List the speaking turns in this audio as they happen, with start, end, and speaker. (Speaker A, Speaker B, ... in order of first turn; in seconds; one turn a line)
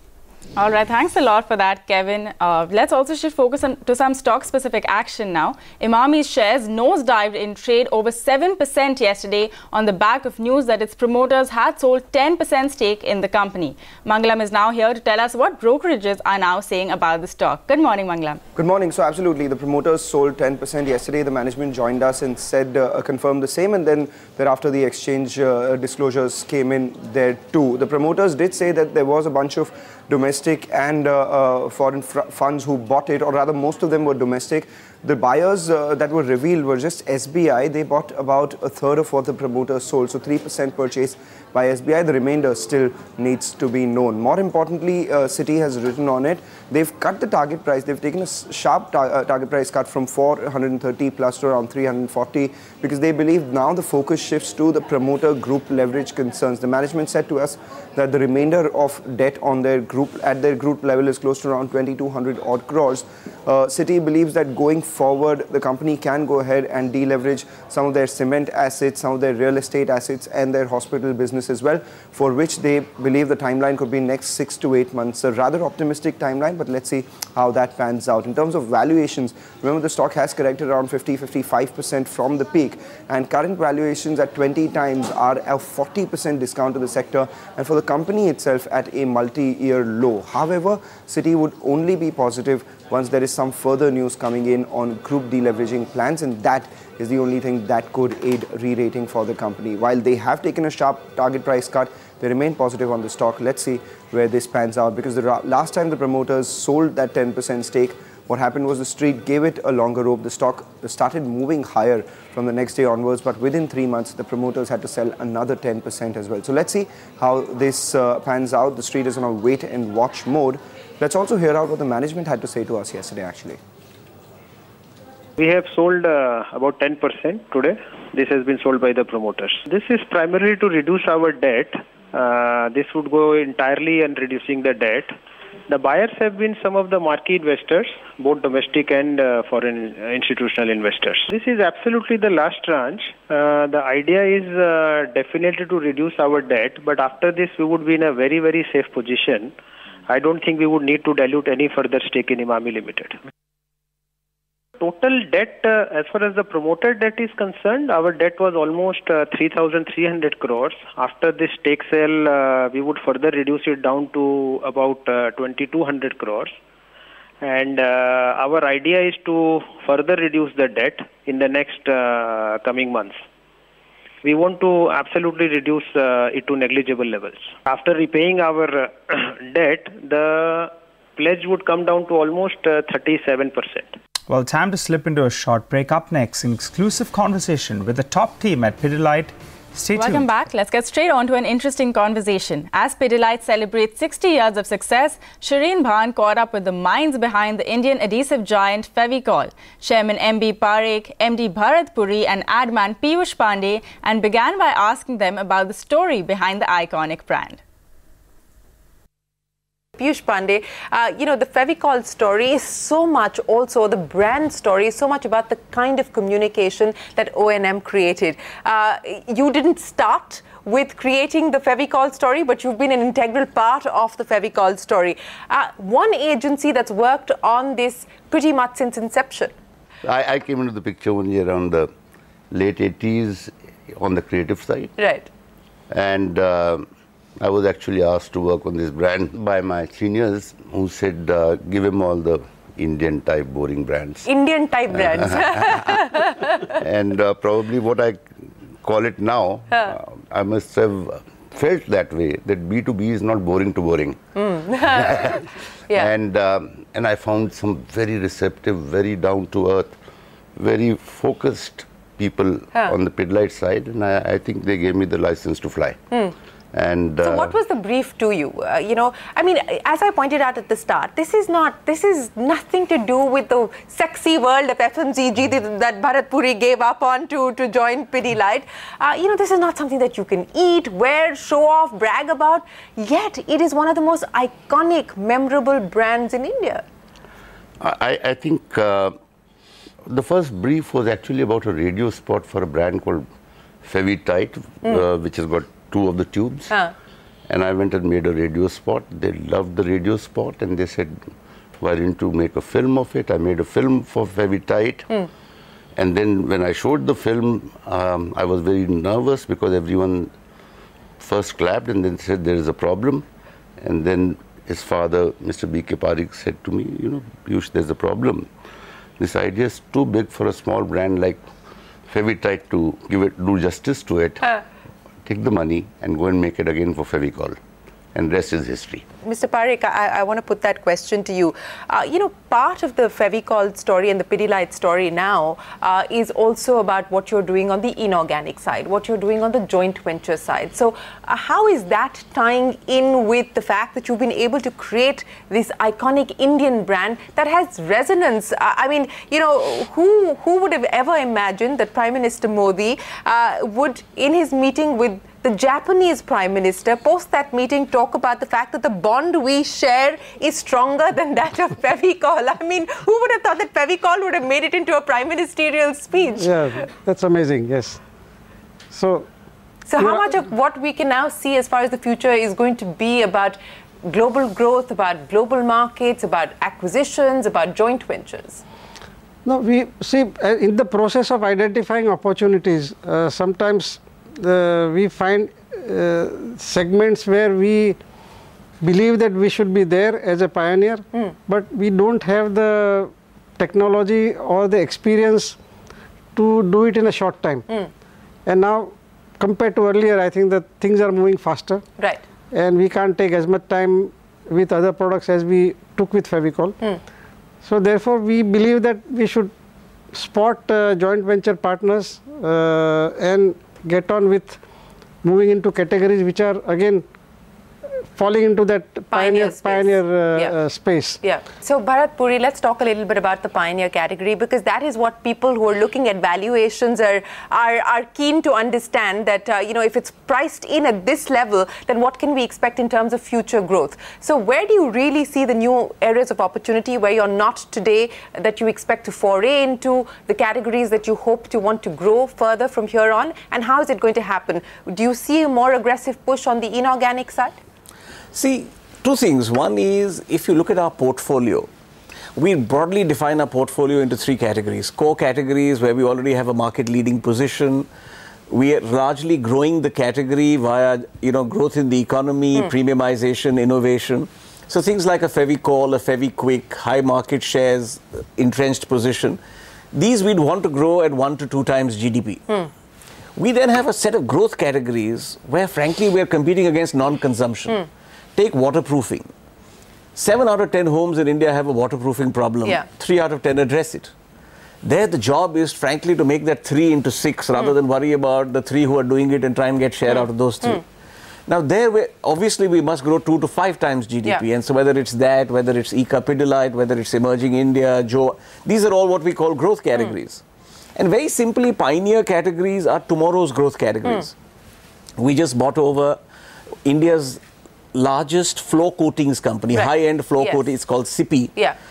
Speaker A: 0.6-18.4
Speaker B: 18.6-123.6
Speaker C: 125.4-135.1
Speaker C: 135.7-149.5
Speaker C: 150.1-153.2
Speaker C: 154.8-166.6
Speaker C: 167.4-173.2
Speaker C: 174.2-184.0
Speaker D: 184.3-190.3
Speaker A: 189.9-207.6
Speaker E: 210.0-229.5
Speaker F: 230.0-231.9
Speaker F: 232.5-234.9
Speaker E: 235.0-235.3
Speaker F: 235.9-236.9
Speaker F: 237.4-244.3
Speaker E: 244.3-246.7
Speaker F: 244.9-246.0
Speaker F: 246.8-248.3
Speaker F: 248.8-254.2
Speaker E: 254.4-256.1
Speaker F: 254.9-255.4
Speaker F: 255.9-260.0
Speaker F: 260.6-266.0
Speaker F: 266.7-267.5
Speaker E: 267.2-286.8
Speaker F: 287.8-289.1
Speaker F: 290.0-293.3
Speaker F: 293.8-296.7
Speaker F: 297.5-305.1
Speaker F: 306.0-310.3
Speaker F: 311.2-313.2
Speaker F: 313.8-318.5
Speaker F: 319.2-321.5
Speaker F: 322.1-324.4
Speaker F: 325.2-327.6
Speaker F: 328.1-329.0
Speaker E: 329.2-366.9
Speaker G: 366.4-368.0
Speaker G: 368.9-369.3
Speaker E: 369.9-378.6
Speaker G: 370.0-370.3
Speaker G: 379.4-388.0
Speaker G: 388.8-395.6
Speaker G: 396.4-397.6
Speaker G: 398.5-401.8
Speaker G: 402.5-406.7
Speaker G: 407.6-409.5
Speaker G: 410.1-414.6
Speaker G: 415.2-417.1
Speaker G: 418.1-421.2
Speaker E: 419.1-420.6
Speaker E: 421.2-447.6
Speaker H: 448.3-451.7
Speaker H: 452.4-457.9
Speaker H: 458.5-469.4
Speaker H: 469.9-472.4
Speaker H: 473.4-477.8
Speaker H: 478.4-479.3
Speaker H: 480.1-484.1
Speaker H: 484.8-490.8
Speaker E: 490.1-490.8
Speaker H: 491.5-500.4
Speaker H: 500.9-504.3
Speaker H: 505.2-506.2
Speaker H: 506.8-507.4
Speaker H: 507.9-511.5
Speaker E: 509.7-510.7